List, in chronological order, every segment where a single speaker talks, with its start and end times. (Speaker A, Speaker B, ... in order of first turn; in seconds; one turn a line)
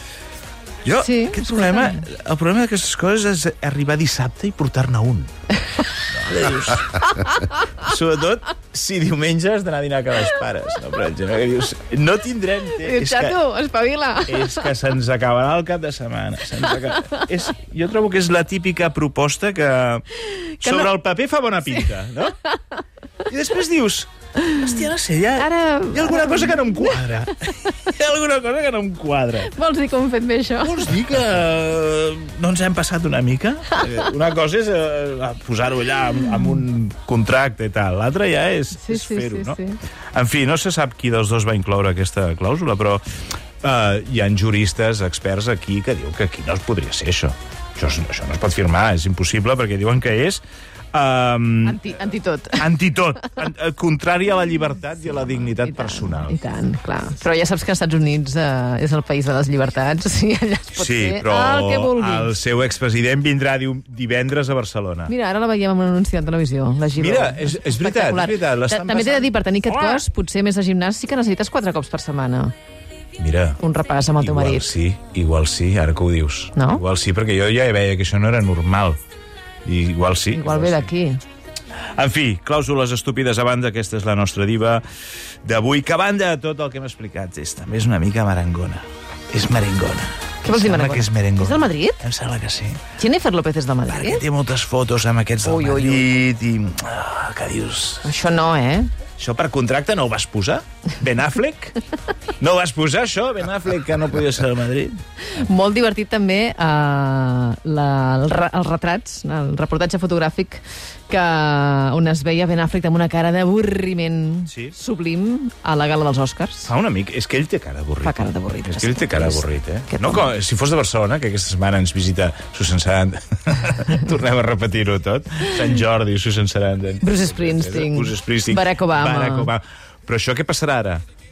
Speaker A: 0.8-5.3
Speaker B: 1.0-2.1
Speaker A: 6.1-7.2
Speaker A: 7.8-13.4
Speaker B: 12.7-14.7
Speaker A: 14.3-20.1
Speaker B: 20.2-20.9
Speaker A: 20.6-22.4
Speaker A: 23.2-29.5
Speaker B: 25.4-27.7
Speaker B: 29.5-31.0
Speaker A: 30.6-39.6
Speaker B: 38.8-39.8
Speaker A: 40.1-43.0
Speaker A: 43.6-50.4
Speaker A: 50.9-51.8
Speaker B: 51.6-52.7
Speaker A: 52.6-56.4
Speaker B: 55.2-62.4
Speaker A: 60.8-65.1
Speaker B: 65.1-72.5
Speaker A: 66.9-70.0
Speaker A: 73.2-73.6
Speaker B: 73.6-74.7
Speaker A: 74.2-79.0
Speaker B: 76.5-76.8
Speaker A: 79.6-80.9
Speaker B: 80.3-81.2
Speaker A: 82.0-84.8
Speaker A: 85.4-92.8
Speaker B: 90.4-92.0
Speaker B: 93.0-94.2
Speaker A: 93.9-98.1
Speaker B: 95.4-96.2
Speaker B: 98.0-98.9
Speaker A: 99.2-101.8
Speaker A: 102.4-105.0
Speaker B: 105.3-116.7
Speaker A: 114.5-114.7
Speaker A: 116.7-131.0
Speaker B: 118.0-120.3
Speaker B: 127.0-129.5